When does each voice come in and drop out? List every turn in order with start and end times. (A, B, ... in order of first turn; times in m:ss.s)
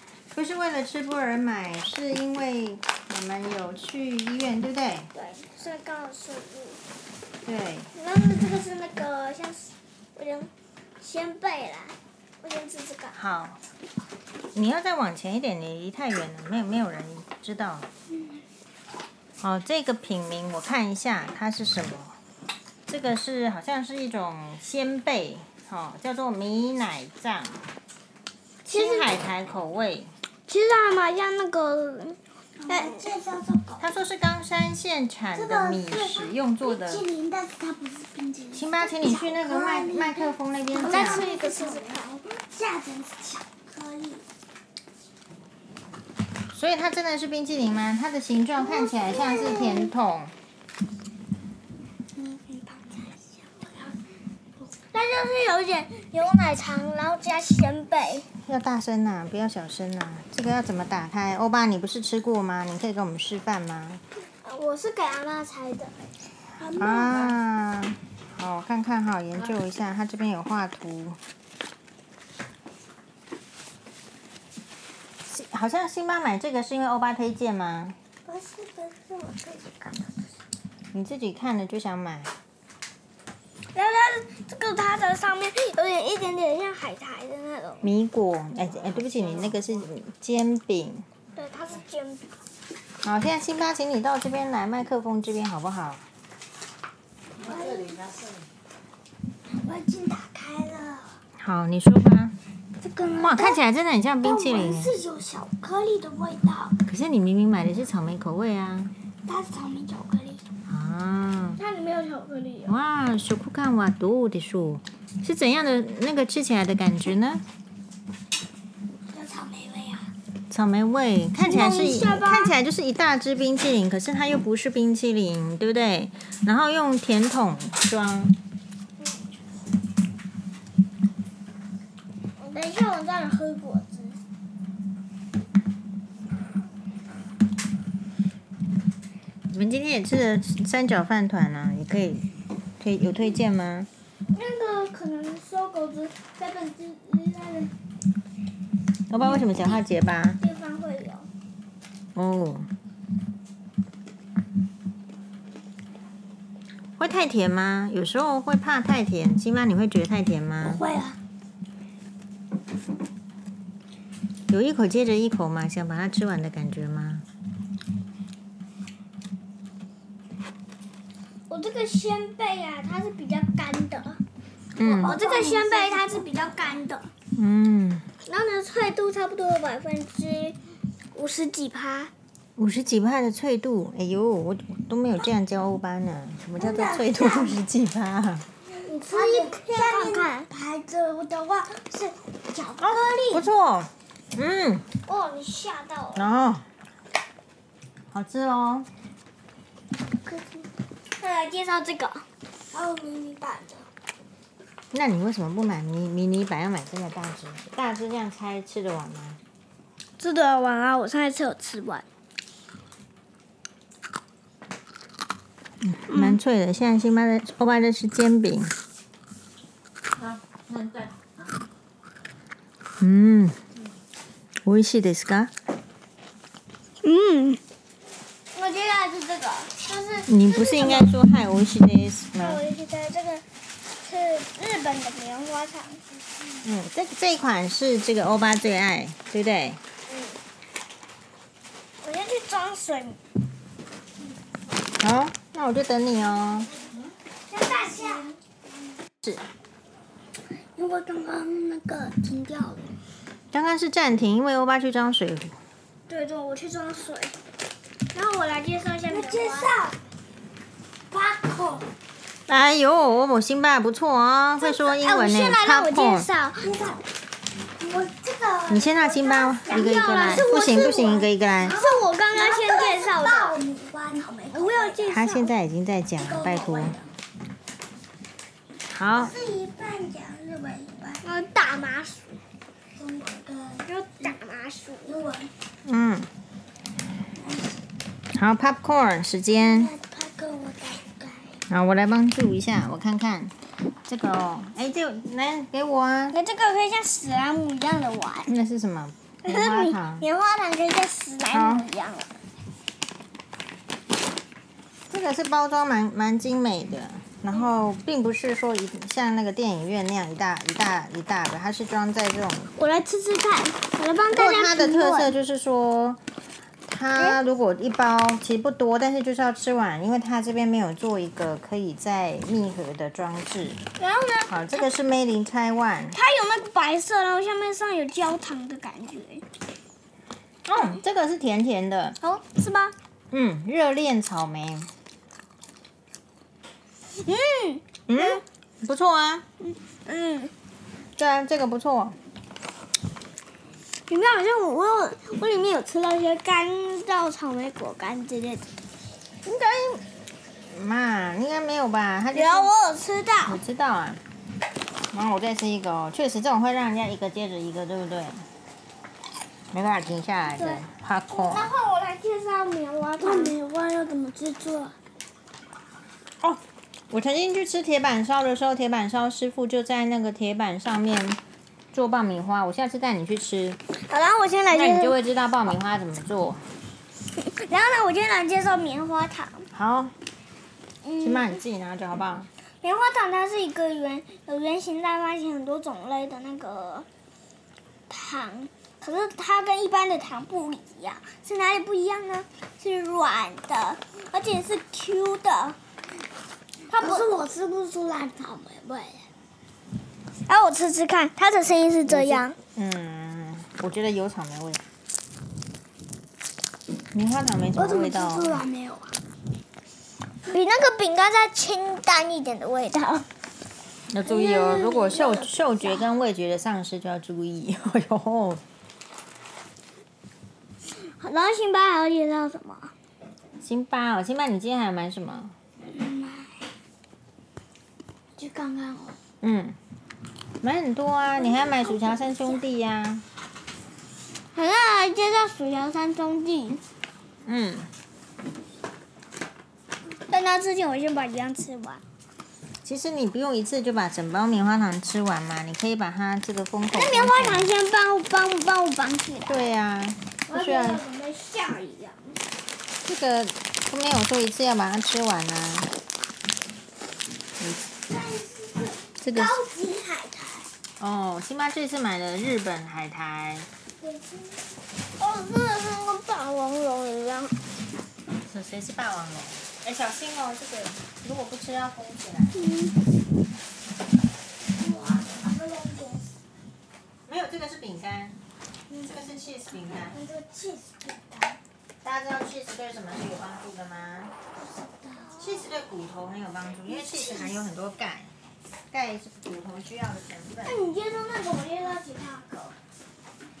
0:00.3-0:05.1 A
0:05.1-0:06.8 B
0:07.4-0:07.9 A
0:07.9-0:13.2 B
0:13.1-0:13.6 A
0:14.5-0:17.9 A
0:19.4-0:22.2 A
0:22.9-0:27.6 A
0:28.6-0:29.1 B
0:28.7-0:30.1 A
0:30.5-0:33.0 B
0:32.6-0:33.8 C
0:33.8-0:37.0 A
0:35.3-0:44.2 C
0:38.5-0:41.2 A
0:40.8-0:42.0 B
0:46.5-0:50.3 A
0:48.6-0:49.9 C
0:52.2-0:53.9 C
0:54.9-0:58.3 B
0:58.4-1:04.0 A
1:04.4-1:05.9 B
1:06.6-1:07.1 C
1:06.8-1:11.2 A
1:15.2-1:18.0 A
1:18.2-1:20.2 C
1:20.9-1:22.3 A
1:23.7-1:27.9 B
1:27.8-1:31.0 A
1:31.3-1:32.2 B
1:33.0-1:36.0 A
1:37.4-1:38.2 C
1:39.6-1:41.2 C
1:41.4-1:42.3 A
1:42.8-1:43.6 C
1:43.1-1:45.0 A
1:44.2-1:46.8 C
1:46.8-1:48.9 A
1:49.3-1:50.4 C
1:50.7-1:51.6 A
1:51.6-1:52.8 B
1:52.7-1:57.4 A
1:59.1-2:00.1 C
2:00.5-2:08.4 A
2:01.4-2:02.5 B
2:12.4-2:14.2 B
2:19.5-2:22.3 A
2:22.8-2:23.9 A
2:24.3-2:27.7 B
2:26.6-2:27.2 C
2:29.1-2:30.4 A
2:29.2-2:29.8 B
2:30.4-2:31.3 B
2:32.1-2:32.7 A
2:37.0-2:40.8 A
2:40.7-2:41.2 C
2:44.5-2:47.2 A
2:51.5-2:54.2 B
2:54.8-2:55.2 A
2:54.8-2:56.6 C
2:55.0-2:57.1 B
2:57.4-2:58.0 A
2:58.2-3:00.6 B
3:01.1-3:02.1 B
3:02.6-3:08.4 A
3:06.6-3:07.6 C
3:08.7-3:13.5 C
3:08.8-3:10.5 B
3:12.8-3:14.8 A
3:15.0-3:16.3 B
3:16.1-3:16.6 A
3:18.1-3:18.9 A
3:20.2-3:20.7 C
3:21.2-3:22.2 B
3:22.7-3:23.9 C
3:24.9-3:29.4 A
3:30.2-3:32.0 B
3:35.8-3:38.7 A
3:36.1-3:36.4 B
3:43.0-3:43.6 A
3:44.6-3:45.5 A
3:47.0-3:47.6 B
3:48.5-3:51.1 B
3:50.3-3:52.6 A
3:52.4-3:53.4 B
3:54.0-3:56.0 B
3:56.6-3:59.8 A
4:00.1-4:00.4 B
4:02.0-4:03.2 B
4:05.0-4:06.7 A
4:07.5-4:08.4 C
4:07.5-4:08.3 B
4:10.8-4:12.8 C
4:13.5-4:15.6 A
4:16.1-4:17.4 B
4:18.1-4:19.7 B
4:19.1-4:20.0 C
4:21.1-4:21.9 C
4:22.5-4:26.3 A
4:24.6-4:26.7 B
4:26.6-4:27.0 C
4:27.8-4:35.2 C
4:28.7-4:31.8 A
4:29.7-4:33.5 B
4:34.5-4:35.5 B
4:35.1-4:37.0 A
4:36.2-4:37.1 C
4:38.9-4:39.3 A
4:39.1-4:41.2 C
4:41.2-4:42.4 B
4:43.0-4:44.3 C
4:43.8-4:45.2 B
4:45.0-4:45.5 C
4:45.8-4:46.3 A
4:47.4-4:47.8 C
4:48.3-4:49.9 A
4:49.5-4:51.6 C
4:51.7-4:53.5 A
4:54.0-4:56.4 A
4:56.3-4:58.5 B
4:58.5-5:00.2 A
4:59.4-5:02.4 B
5:01.5-5:01.8 A
5:05.1-5:12.7 A
5:12.8-5:15.3 B
5:14.3-5:16.2 A
5:16.9-5:23.8 A
5:24.0-5:24.9 B
5:24.5-5:26.2 A
5:26.1-5:29.4 B
5:30.6-5:32.2 A
5:32.2-5:32.9 B
5:33.3-5:34.9 A
5:37.1-5:38.4 B
5:38.1-5:39.4 A
5:39.6-5:40.5 B
5:41.2-5:42.2 A
5:44.1-5:48.7 B
5:49.4-5:50.0 A
5:50.7-5:52.7 A
5:52.3-5:53.6 B
5:53.4-5:54.2 A
5:55.1-5:58.4 A
5:59.7-6:01.7 A
6:00.6-6:03.6 B
6:03.2-6:05.0 C
6:06.4-6:11.4 A
6:11.9-6:13.8 A
6:14.0-6:15.2 B
6:14.7-6:16.6 A
6:17.3-6:19.7 B
6:19.7-6:20.1 A
6:21.0-6:21.6 B
6:21.2-6:22.5 A
6:22.8-6:27.1 B
6:28.1-6:35.8 B
6:36.9-6:37.3 B
6:36.9-6:39.3 C
6:40.5-6:42.6 B
6:42.0-6:44.8 A
6:47.1-6:48.6 A
6:47.7-6:49.1 C
6:50.4-6:53.3 B
6:54.1-6:58.6 A
6:54.2-6:56.0 C
7:01.0-7:02.9 B
7:03.6-7:05.5 A
7:06.0-7:06.5 C
7:08.4-7:09.2 C
7:09.4-7:09.8 A
7:10.6-7:13.2 A
7:14.5-7:16.8 B
7:17.4-7:17.9 A
7:20.3-7:22.0 B
7:22.8-7:27.7 A
7:26.9-7:29.6 B
7:29.4-7:31.0 A
7:30.5-7:32.4 B
7:33.0-7:35.9 A
7:38.1-7:40.6 C
7:39.2-7:39.6 A
7:41.0-7:43.7 A
7:44.0-7:44.7 C
7:45.2-7:47.6 B
7:48.4-7:52.6 A
7:52.5-7:52.9 B
7:54.8-7:56.3 C
7:57.3-7:58.4 A
7:58.9-8:01.6 C
7:59.0-8:00.2 A
8:02.0-8:04.3 A
8:04.6-8:05.4 C
8:05.4-8:08.3 A
8:06.9-8:07.5 C
8:07.1-8:07.5 B
8:08.9-8:10.8 A
8:10.6-8:12.8 B